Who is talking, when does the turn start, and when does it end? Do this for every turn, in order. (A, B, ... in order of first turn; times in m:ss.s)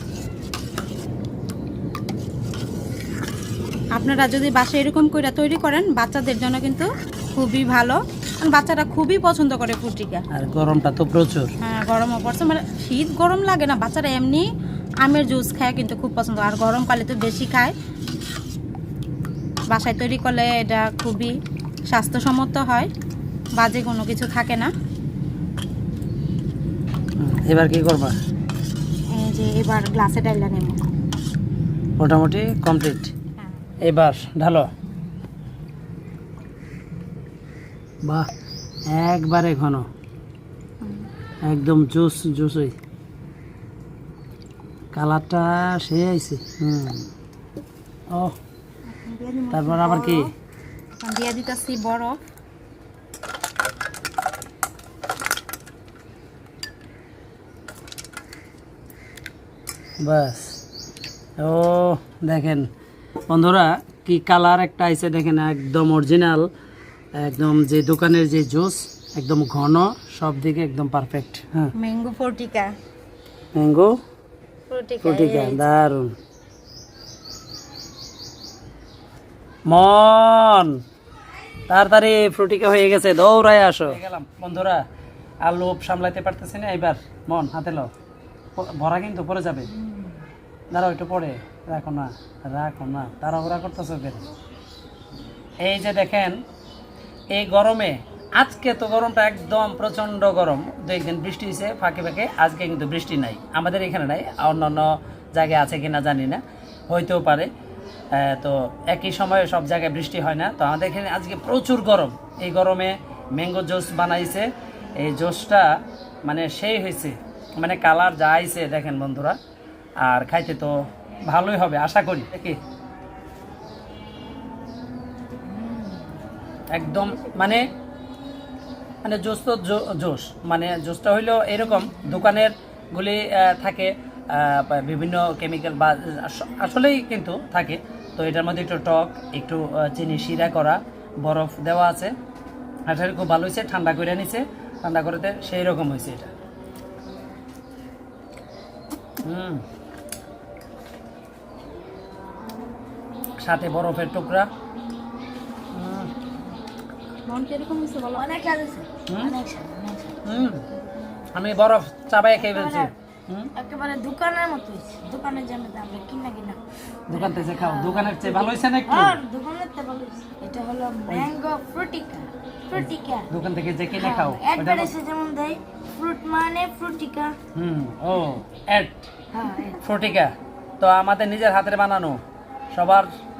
0:03.9-0:10.2 A
0:10.3-0:11.5 B
0:11.6-0:14.4 A
0:15.0-0:17.7 A
0:19.7-0:21.3 A
0:21.9-0:22.9 A
0:23.6-0:24.7 A
0:27.2-0:28.1 B
0:29.1-0:30.8 A
0:32.0-0:33.1 B
0:33.8-0:34.7 B
0:38.9-0:39.8 B
0:40.8-0:41.1 A
0:41.4-0:42.7 B
0:44.9-0:47.1 B
0:48.1-0:48.4 B
0:48.9-0:50.3 A
0:49.5-0:50.3 B
0:51.0-0:52.2 A
1:00.0-1:00.6 B
1:01.4-1:02.7 B
1:03.3-1:06.5 B
1:07.2-1:11.7 B
1:11.8-1:12.7 A
1:13.5-1:13.9 B
1:14.7-1:15.6 A
1:15.0-1:16.1 B
1:19.7-1:20.8 B
1:21.7-1:24.8 B
1:25.4-1:27.9 B
1:28.6-1:29.7 B
1:30.7-1:34.2 B
1:35.6-1:36.4 B
1:37.3-1:47.5 B
1:48.1-1:55.7 B
1:56.2-1:59.4 B
2:00.0-2:02.6 B
2:05.6-2:06.0 C
2:06.7-2:07.6 B
2:06.9-2:07.7 A
2:09.0-2:22.1 B
2:22.9-2:26.3 B
2:29.2-2:29.6 B
2:33.4-2:34.5 B
2:35.7-2:36.1 B
2:37.2-2:38.3 A
2:38.1-2:40.5 C
2:39.1-2:39.3 B
2:40.2-2:40.6 B
2:41.3-2:43.5 B
2:42.4-2:42.9 C
2:43.5-2:53.3 C
2:47.1-2:49.2 B
2:52.7-2:54.9 B
2:53.9-2:57.4 C
2:57.5-2:59.1 B
2:59.3-2:59.8 C
2:59.8-3:02.2 B
3:02.7-3:03.1 B